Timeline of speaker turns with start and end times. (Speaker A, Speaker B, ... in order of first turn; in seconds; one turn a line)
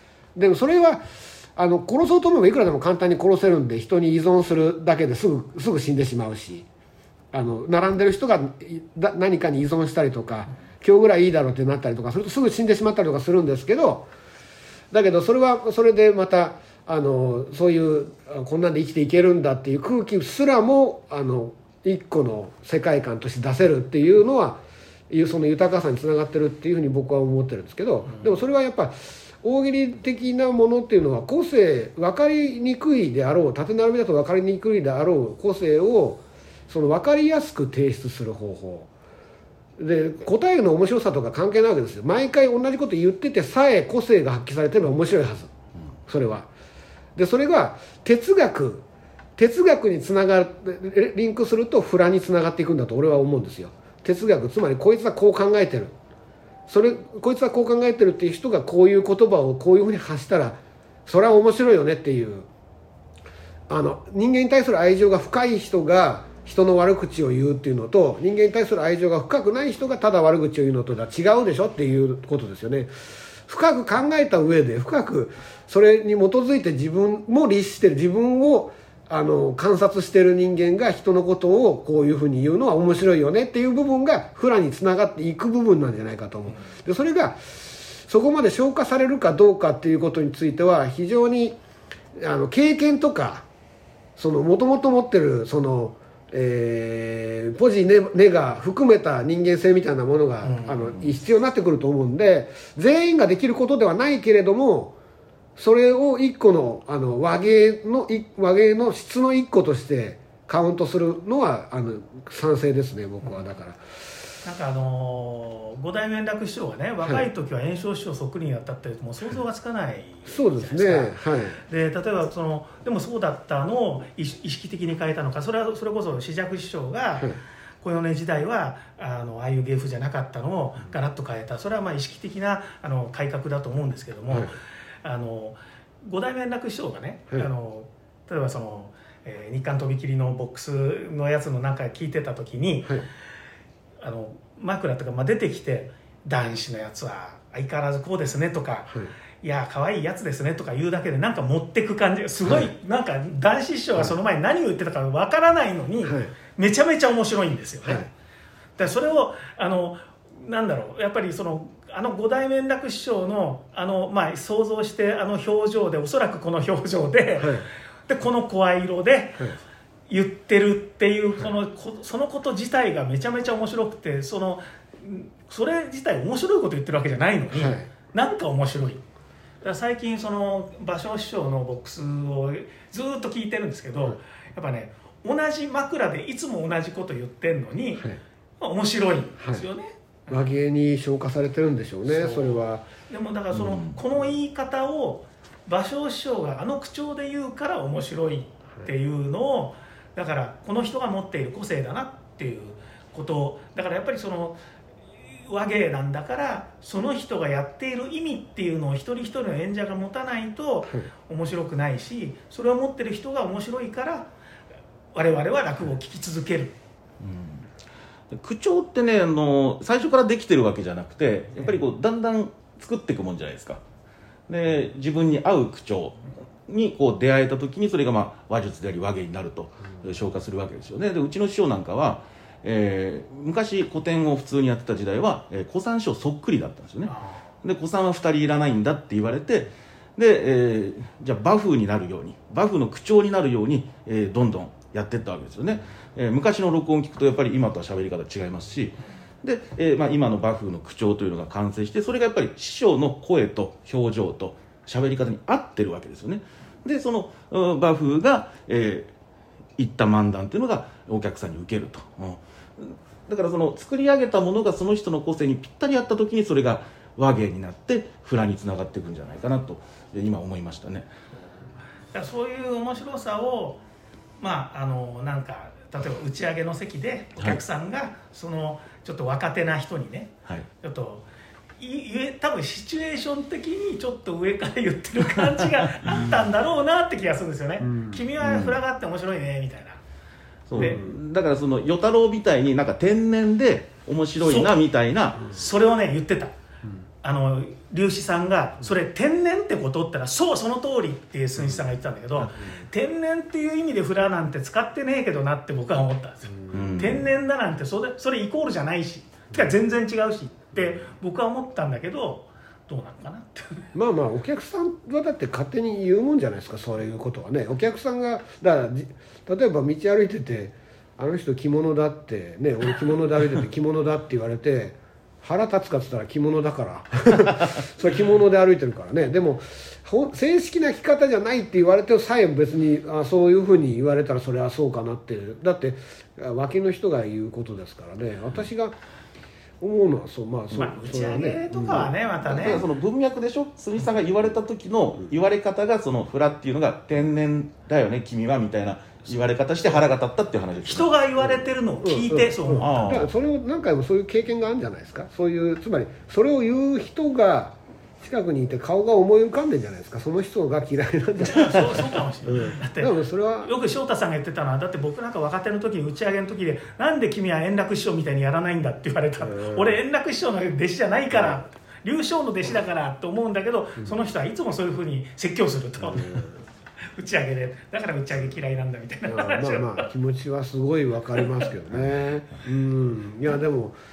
Speaker A: 0.4-6.7
Speaker A: 7.3-14.1
Speaker A: 14.9-38.9
Speaker B: 28.1-28.4
Speaker A: 39.8-45.5
Speaker A: 46.1-46.5
Speaker A: 47.2-48.9
Speaker A: 49.4-56.0
Speaker A: 56.7-62.5
Speaker A: 63.7-72.9
Speaker A: 73.5-91.6
Speaker A: 92.2-93.5
Speaker A: 94.2-105.0
Speaker B: 100.4-101.1
Speaker A: 105.6-113.8
Speaker B: 114.4-143.0
Speaker A: 120.3-121.6
Speaker B: 144.0-158.1
Speaker A: 156.1-156.3
Speaker A: 157.8-158.1
Speaker B: 158.8-169.6
Speaker A: 167.4-167.7
Speaker B: 170.1-179.0
Speaker A: 177.6-177.9
Speaker B: 179.6-188.1
Speaker B: 188.6-190.5
Speaker A: 189.4-189.7
Speaker A: 190.3-192.9
Speaker B: 192.1-204.6
Speaker C: 193.5-194.0
Speaker B: 205.3-214.3
Speaker B: 215.2-216.8
Speaker C: 217.2-217.7
Speaker C: 218.3-223.8
Speaker C: 224.5-259.1
Speaker B: 237.1-237.4
Speaker C: 259.8-271.1
Speaker B: 272.1-273.8
Speaker B: 274.4-281.3
Speaker B: 281.8-290.0
Speaker A: 287.8-288.2
Speaker C: 288.4-288.8
Speaker C: 290.7-295.5
Speaker B: 290.8-291.0
Speaker A: 290.8-291.1
Speaker B: 294.4-294.8
Speaker B: 295.4-296.6
Speaker B: 297.2-313.9
Speaker C: 306.7-307.3
Speaker A: 313.9-338.9
Speaker A: 339.8-342.1
Speaker B: 340.7-342.9
Speaker C: 342.0-351.1
Speaker B: 350.9-353.3
Speaker A: 352.0-363.7
Speaker C: 352.8-353.3
Speaker B: 361.4-376.4
Speaker A: 369.4-369.9
Speaker A: 376.0-376.5
Speaker B: 377.1-380.1
Speaker A: 379.3-384.0